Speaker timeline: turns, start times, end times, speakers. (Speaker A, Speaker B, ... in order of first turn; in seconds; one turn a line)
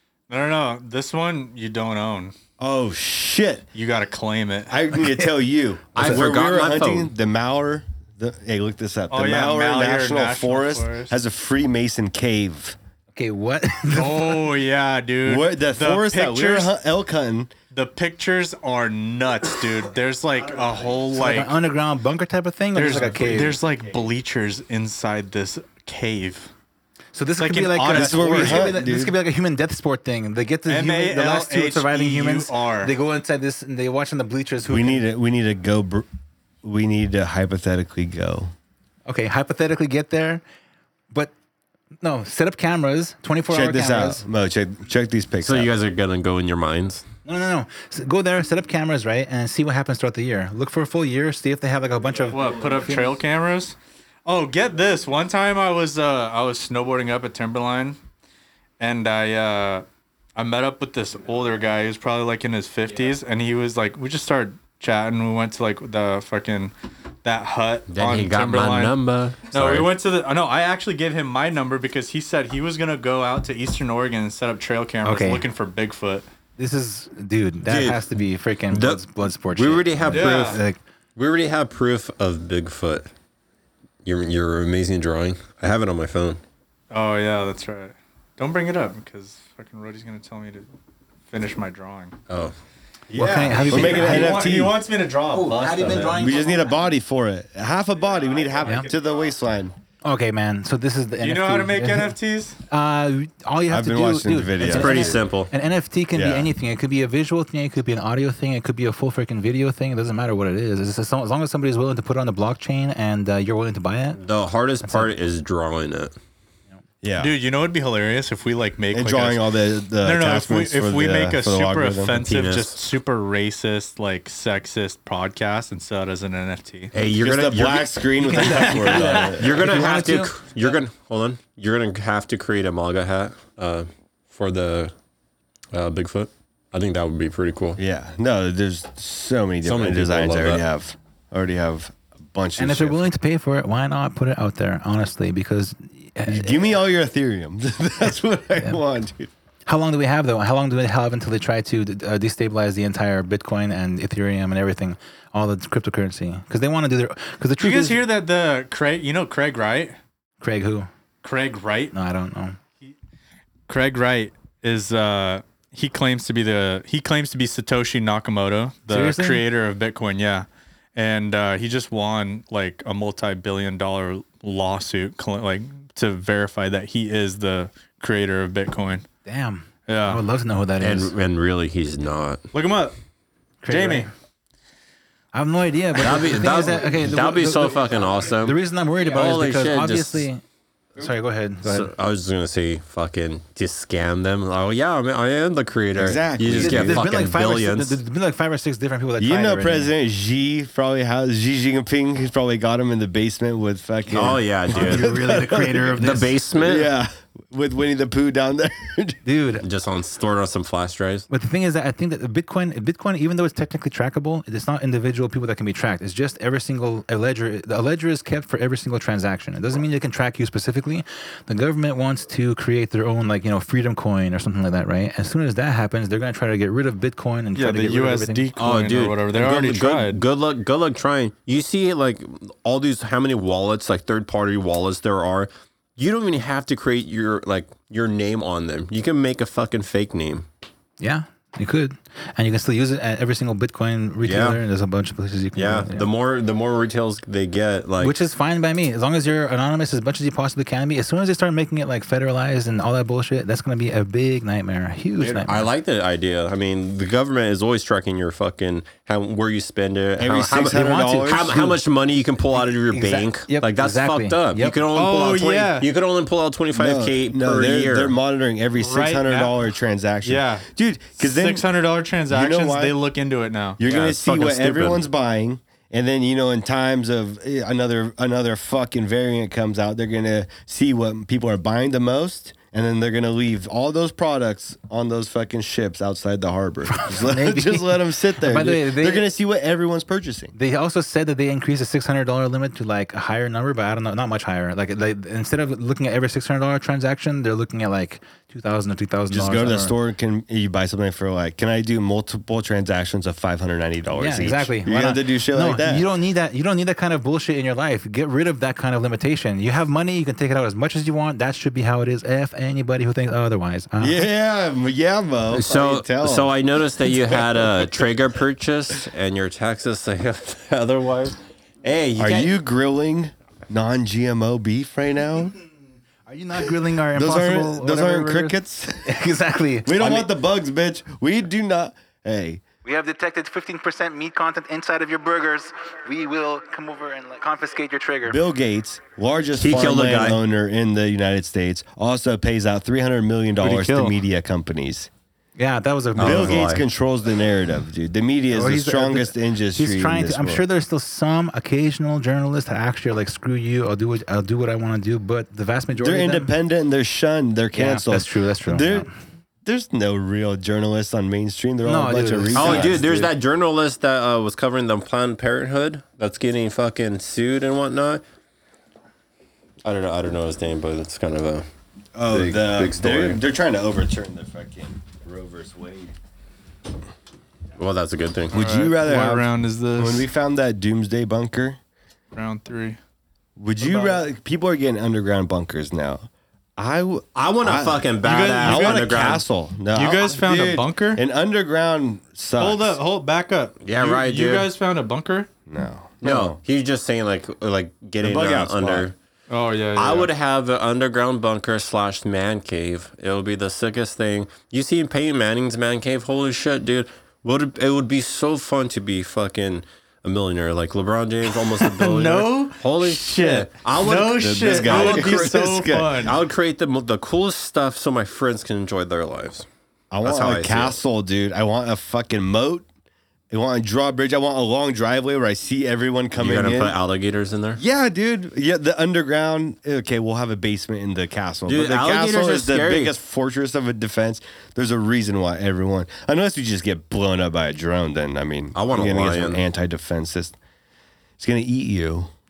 Speaker A: 0.3-2.3
Speaker B: 2.6-3.6
Speaker A: 3.7-4.8
Speaker B: 4.7-12.8
Speaker C: 5.9-7.1
Speaker A: 9.1-11.2
Speaker D: 13.1-14.5
Speaker A: 13.9-16.7
Speaker B: 15.2-17.5
Speaker A: 17.7-21.5
Speaker D: 21.1-23.6
Speaker A: 22.7-26.5
Speaker D: 27.1-35.0
Speaker A: 27.4-28.7
Speaker B: 27.8-29.1
Speaker A: 30.7-32.9
Speaker B: 34.7-36.1
Speaker B: 36.6-38.5
Speaker D: 39.1-40.4
Speaker D: 42.0-44.2
Speaker B: 43.5-45.7
Speaker C: 45.4-47.0
Speaker D: 47.2-53.1
Speaker A: 52.3-58.0
Speaker A: 58.8-59.8
Speaker A: 60.4-66.7
Speaker A: 67.2-68.9
Speaker C: 67.9-69.9
Speaker A: 69.5-76.2
Speaker D: 75.0-75.4
Speaker D: 76.6-80.8
Speaker C: 77.6-78.0
Speaker C: 78.7-80.6
Speaker A: 80.1-80.6
Speaker C: 81.2-83.1
Speaker C: 84.0-86.4
Speaker A: 86.9-90.7
Speaker A: 91.3-92.2
Speaker C: 92.3-92.5
Speaker B: 93.1-94.8
Speaker D: 93.1-94.5
Speaker A: 93.5-96.3
Speaker D: 95.3-96.7
Speaker B: 96.0-99.7
Speaker A: 98.4-99.0
Speaker D: 100.0-102.1
Speaker A: 101.2-102.6
Speaker D: 102.7-114.2
Speaker B: 103.7-105.2
Speaker C: 104.6-105.5
Speaker B: 106.1-106.5
Speaker C: 114.2-116.1
Speaker D: 114.8-115.1
Speaker B: 117.0-117.3
Speaker A: 117.2-119.4
Speaker B: 118.9-122.2
Speaker A: 120.0-126.9
Speaker C: 122.2-122.8
Speaker C: 126.9-127.9
Speaker B: 127.1-129.5
Speaker D: 128.2-130.8
Speaker A: 128.8-129.3
Speaker C: 128.8-134.9
Speaker C: 135.7-137.8
Speaker B: 137.8-143.1
Speaker C: 139.6-140.6
Speaker D: 142.6-146.7
Speaker B: 146.2-149.3
Speaker D: 149.7-158.0
Speaker A: 157.6-160.0
Speaker D: 160.4-160.9
Speaker A: 161.2-161.9
Speaker D: 161.9-162.6
Speaker A: 163.7-179.1
Speaker D: 168.9-169.4
Speaker D: 179.2-181.1
Speaker A: 179.9-180.2
Speaker C: 180.8-182.4
Speaker A: 182.5-182.9
Speaker D: 183.6-184.1
Speaker A: 183.7-184.1
Speaker D: 185.3-190.4
Speaker C: 185.9-190.3
Speaker D: 191.0-191.9
Speaker C: 191.6-198.0
Speaker B: 195.9-197.0
Speaker D: 196.5-199.9
Speaker B: 199.2-209.2
Speaker C: 204.1-205.2
Speaker D: 204.7-206.3
Speaker C: 205.9-206.9
Speaker D: 209.2-209.6
Speaker C: 209.6-211.2
Speaker D: 211.3-228.4
Speaker A: 227.6-230.2
Speaker C: 228.6-240.4
Speaker D: 241.0-246.1
Speaker C: 244.2-244.6
Speaker C: 245.5-248.2
Speaker D: 248.0-255.7
Speaker C: 255.2-268.1
Speaker B: 260.2-261.8
Speaker D: 260.5-261.6
Speaker D: 262.9-264.8
Speaker A: 264.9-265.9
Speaker B: 266.7-271.7
Speaker A: 268.8-269.6
Speaker A: 270.2-270.6
Speaker A: 271.2-273.8
Speaker B: 272.3-272.9
Speaker B: 273.8-290.5
Speaker C: 273.8-275.0
Speaker D: 286.9-289.3
Speaker D: 290.5-299.9
Speaker B: 299.3-306.1
Speaker D: 304.1-314.2
Speaker B: 314.0-317.9
Speaker C: 315.5-322.5
Speaker B: 322.2-325.5
Speaker D: 326.3-330.2
Speaker B: 327.1-329.1
Speaker B: 329.8-332.6
Speaker D: 332.8-338.4
Speaker B: 338.3-345.1
Speaker C: 339.6-340.4
Speaker A: 343.6-344.1
Speaker D: 345.6-346.6
Speaker C: 346.2-346.8
Speaker B: 346.2-350.6
Speaker D: 348.5-356.5
Speaker B: 356.0-359.1
Speaker D: 357.7-359.1
Speaker B: 359.6-363.3
Speaker D: 361.8-363.0
Speaker C: 362.5-368.2
Speaker C: 369.8-371.7
Speaker B: 372.1-376.1
Speaker C: 372.3-373.4
Speaker C: 377.8-378.6
Speaker B: 378.5-381.8
Speaker A: 378.5-380.3
Speaker A: 382.3-383.0
Speaker B: 383.6-393.0
Speaker A: 383.8-384.1
Speaker C: 387.3-389.4
Speaker A: 388.2-389.3
Speaker A: 389.9-391.2
Speaker A: 392.6-395.5
Speaker C: 393.8-394.7
Speaker B: 395.7-396.6
Speaker C: 396.2-399.1
Speaker B: 398.2-399.1
Speaker A: 399.5-400.3
Speaker C: 399.9-419.6
Speaker A: 411.6-416.4
Speaker B: 414.4-416.2
Speaker B: 420.1-422.9
Speaker C: 420.2-420.9
Speaker B: 423.5-426.9
Speaker C: 426.4-427.8
Speaker B: 427.8-440.6
Speaker C: 431.6-433.1
Speaker C: 438.7-439.6
Speaker B: 441.4-442.3